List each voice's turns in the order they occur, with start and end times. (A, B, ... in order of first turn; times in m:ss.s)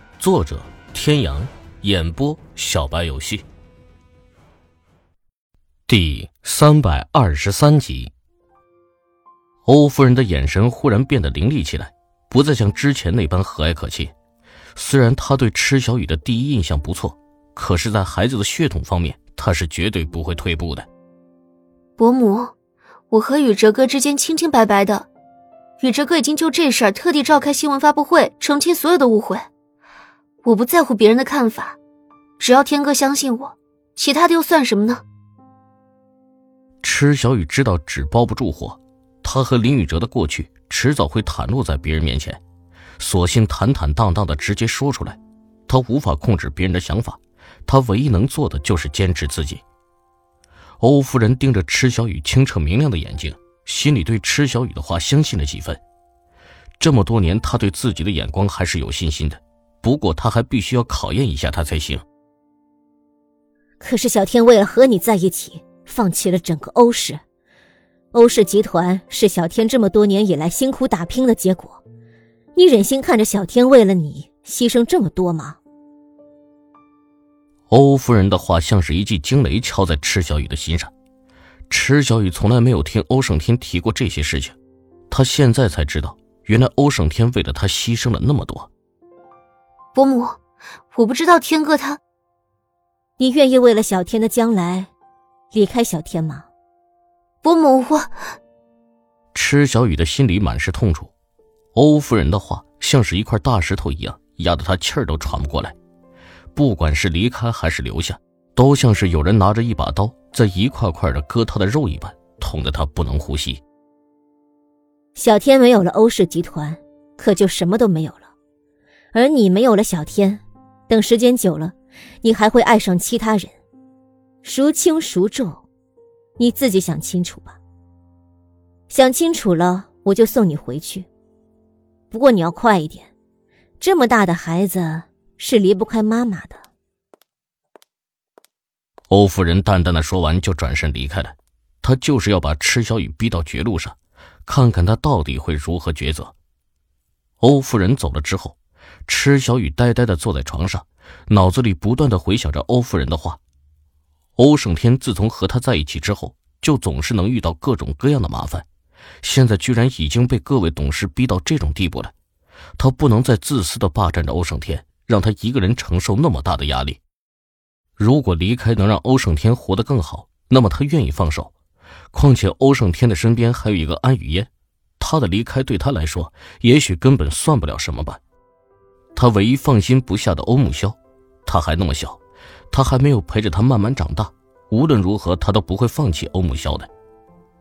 0:00.2-0:03.4 A
0:05.9-0:08.1 A
0:09.6-0:14.1 A
0:14.7-0:20.9 A
0:22.0-0:22.5 B
0:23.1-0:25.1 B
0:25.8-0:29.5 B
0:30.4-0:31.8 B
0:32.4-0:35.0 B
0:36.8-0:42.4 A
0:43.0-0:49.6 A
0:50.8-0:55.8 A
0:56.8-1:02.0 A
1:03.8-1:07.2 C
1:08.1-1:11.8 C
1:12.5-1:15.6 C
1:17.7-1:20.9 A
1:21.7-1:24.6 A
1:25.1-1:28.7 A
1:29.9-1:30.4 B
1:30.9-1:32.0 B
1:33.2-1:34.9 C
1:35.5-1:36.5 C
1:37.4-1:38.2 B
1:39.3-1:41.1 A
1:41.7-1:45.7 A
1:46.5-1:53.6 A
1:55.1-1:58.3 C
1:59.1-2:03.5 C
2:04.4-2:05.6 C
2:06.4-2:07.6 C
2:08.9-2:11.1 C
2:12.1-2:13.1 C
2:13.8-2:16.6 C
2:19.1-2:26.3 A
2:27.4-2:33.4 A
2:34.4-2:38.6 A
2:39.2-2:42.1 A
2:42.8-2:47.0 A
2:48.0-2:51.5 A
2:52.1-2:54.5 A
2:55.0-2:58.2 A
2:59.1-3:02.2 A
3:02.7-3:06.9 A